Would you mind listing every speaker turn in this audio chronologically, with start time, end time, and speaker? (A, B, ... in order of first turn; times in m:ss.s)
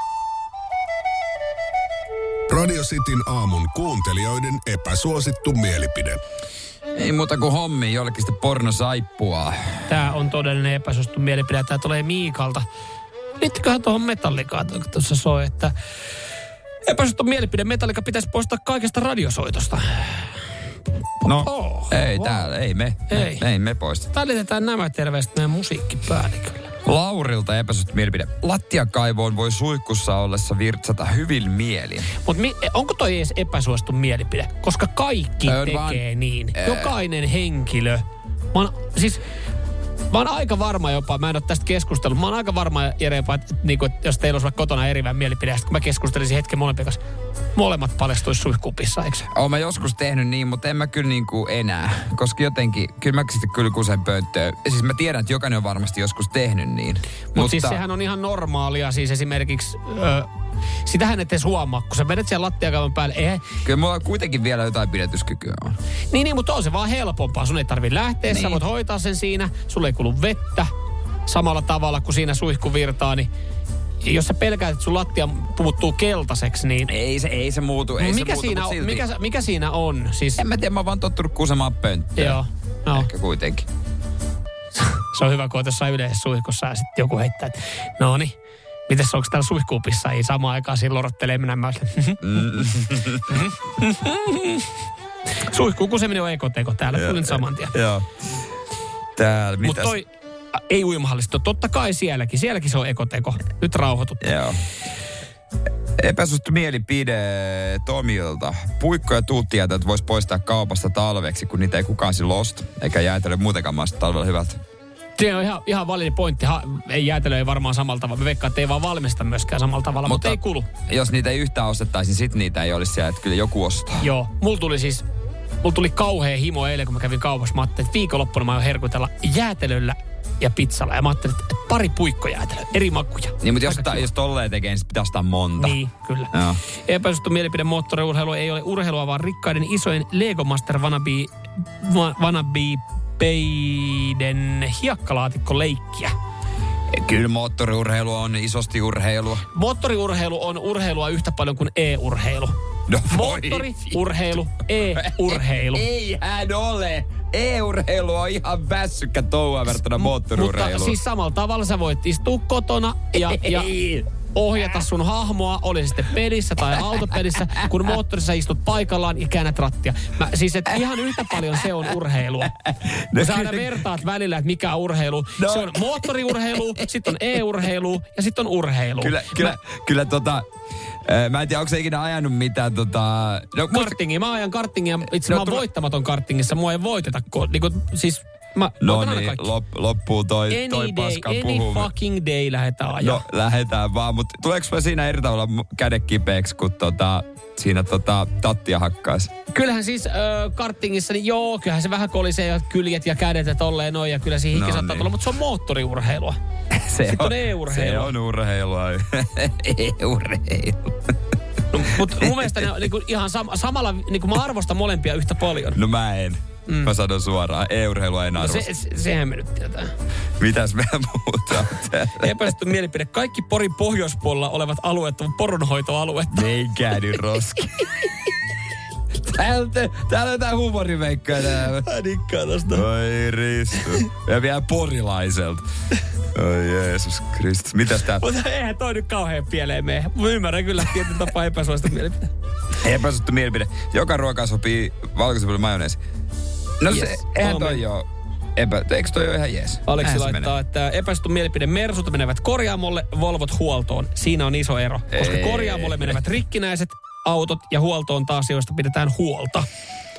0:02.5-0:06.2 A
0:07.0-0:09.8 B
0:09.9-0:12.7 C
0:13.4-0:15.7 C
0:16.8-0:20.3 C
0:21.2-0:22.5 C
0:21.2-0:24.1 B
0:23.1-0:23.4 C
0:24.1-0:26.7 C
0:26.8-0:32.1 B
0:32.2-0:39.2 C
0:35.4-0:36.0 B
0:36.5-0:36.9 B
0:40.1-0:47.0 C
0:47.6-0:49.3 C
0:49.3-0:57.8 B
0:57.4-1:00.3 C
1:00.8-1:03.5 C
1:03.6-1:05.8 B
1:06.1-1:10.7 C
1:08.2-1:08.6 B
1:11.2-1:13.3 C
1:14.0-1:16.9 C
1:16.9-1:19.0 B
1:18.0-1:20.4 C
1:20.4-1:22.4 B
1:22.2-1:23.1 C
1:22.9-1:23.7 B
1:24.8-1:28.3 C
1:28.9-1:32.4 C
1:32.2-1:33.4 B
1:33.3-1:34.7 C
1:35.4-1:37.8 C
1:36.9-1:38.1 B
1:39.2-1:40.0 B
1:39.6-1:44.3 C
1:44.2-1:44.6 B
1:46.0-1:54.6 B
1:55.2-2:00.7 C
2:00.0-2:04.1 B
2:04.0-2:05.0 C
2:05.6-2:14.1 C
2:13.4-2:15.8 B
2:15.6-2:26.1 C
2:16.3-2:16.6 B
2:26.9-2:29.4 B
2:29.5-2:32.5 C
2:32.9-2:34.1 B
2:33.1-2:35.9 C
2:34.9-2:41.0 B
2:39.9-2:52.5 C
2:43.2-2:44.1 B
2:46.9-2:47.6 B
2:52.4-2:53.9 B
2:53.1-2:59.6 C
2:55.4-2:56.4 B
2:59.0-3:00.4 B
3:01.0-3:04.0 B
3:03.7-3:09.5 C
3:05.2-3:05.6 B
3:08.8-3:11.9 B
3:10.5-3:13.2 C
3:13.0-3:19.3 B
3:19.5-3:26.4 C
3:24.5-3:25.1 B
3:26.7-3:31.1 B
3:27.0-3:28.1 C
3:31.7-3:35.8 C
3:32.2-3:32.5 B
3:35.7-3:38.7 B
3:36.7-3:36.9 C
3:38.4-3:39.9 C
3:40.4-3:42.5 B
3:42.2-3:46.6 C
3:46.3-3:48.1 B
3:49.2-3:51.8 B
3:51.4-3:52.9 C
3:52.7-3:55.6 B
3:53.8-3:54.0 C
3:56.3-3:58.2 B
3:58.1-4:02.3 C
4:02.8-4:06.0 B
4:06.8-4:10.5 B
4:06.9-4:07.8 C
4:09.9-4:19.7 C
4:15.1-4:16.2 B